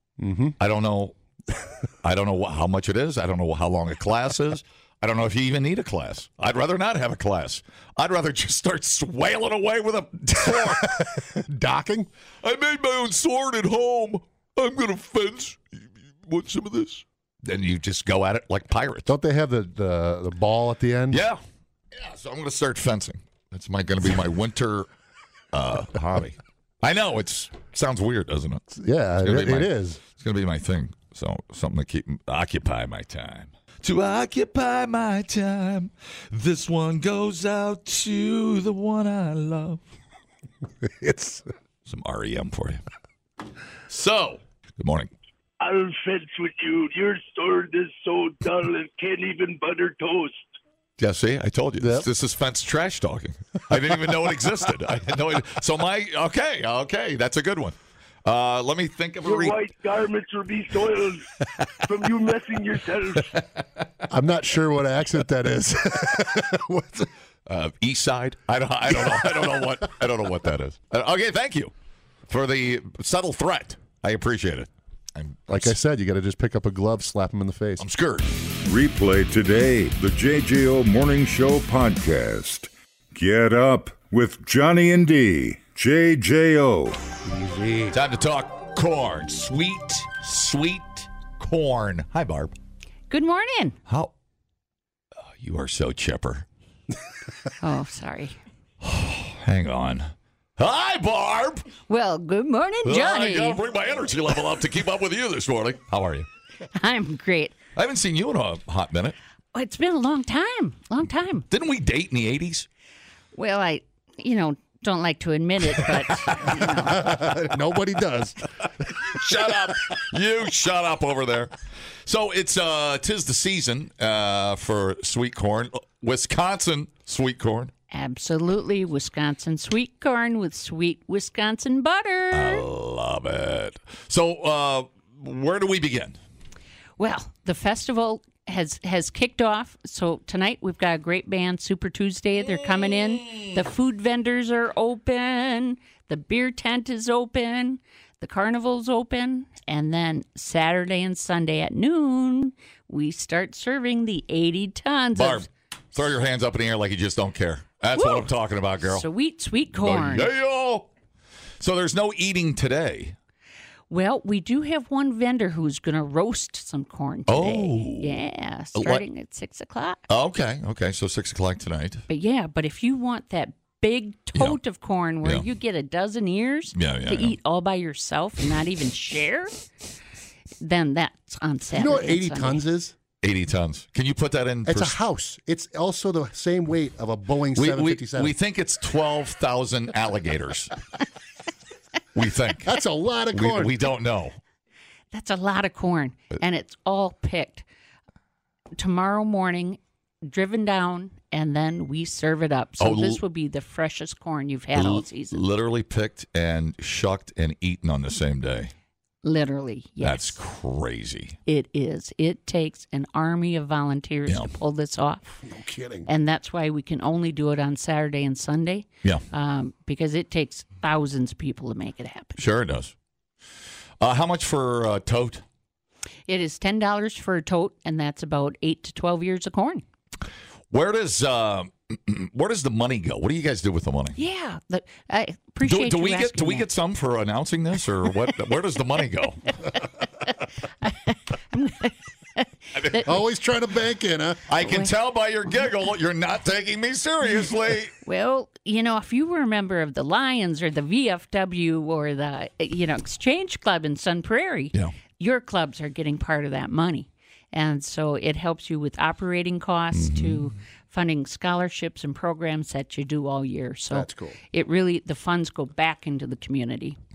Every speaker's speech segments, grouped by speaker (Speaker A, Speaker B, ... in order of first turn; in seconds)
Speaker A: 0.2-0.5, 10.4-12.1, 19.1-21.2, 28.7-30.0, 40.8-41.5, 51.8-52.1, 64.1-67.1, 68.9-69.5, 75.5-77.8, 87.2-88.0, 116.8-118.4, 181.7-182.9, 184.7-188.3, 192.6-193.7, 215.4-216.1, 243.0-244.4, 263.9-264.4
Speaker B: 0.6-1.1, 2.0-11.2, 12.4-19.1, 21.1-21.4, 21.9-24.9, 25.5-28.6, 29.2-39.8, 41.9-42.8, 43.9-45.1, 51.0-59.6, 67.5-71.7, 72.3-75.7, 77.8-78.3, 87.9-92.5, 93.9-94.1, 95.4-96.5, 98.8-101.7, 102.8-106.3, 107.7-109.2, 111.5-112.7, 116.3-116.6, 119.0-121.5, 122.0-127.7, 132.3-136.2, 142.9-143.5, 155.2-159.1, 159.7-160.9, 161.6-163.2, 167.3-168.2, 168.7-169.0, 170.1-172.1, 176.7-177.3, 183.2-185.0, 187.6-190.7, 192.1-192.7, 193.3-194.4, 202.8-203.2, 204.8-208.7, 210.0-211.4, 214.3-214.5, 222.4-222.9, 224.0-225.4, 230.7-234.2, 235.6-239.5, 242.7-243.1, 244.5-247.9, 259.9-260.5
Speaker C: 45.6-50.5, 59.2-61.3, 61.9-63.3
Speaker D: 78.6-87.0
Speaker E: 93.1-93.8, 97.6-98.4, 101.9-103.6, 106.7-107.5, 109.5-111.5, 113.3-117.1, 127.9-132.6, 137.0-155.5, 157.9-158.3, 158.8-160.3, 163.9-170.0, 172.1-179.5, 180.6-182.6, 195.1-197.6, 198.8-205.4, 209.2-210.4, 211.4-215.2, 216.1-222.4, 226.3-229.8, 234.2-236.7, 240.8-243.1, 248.0-267.0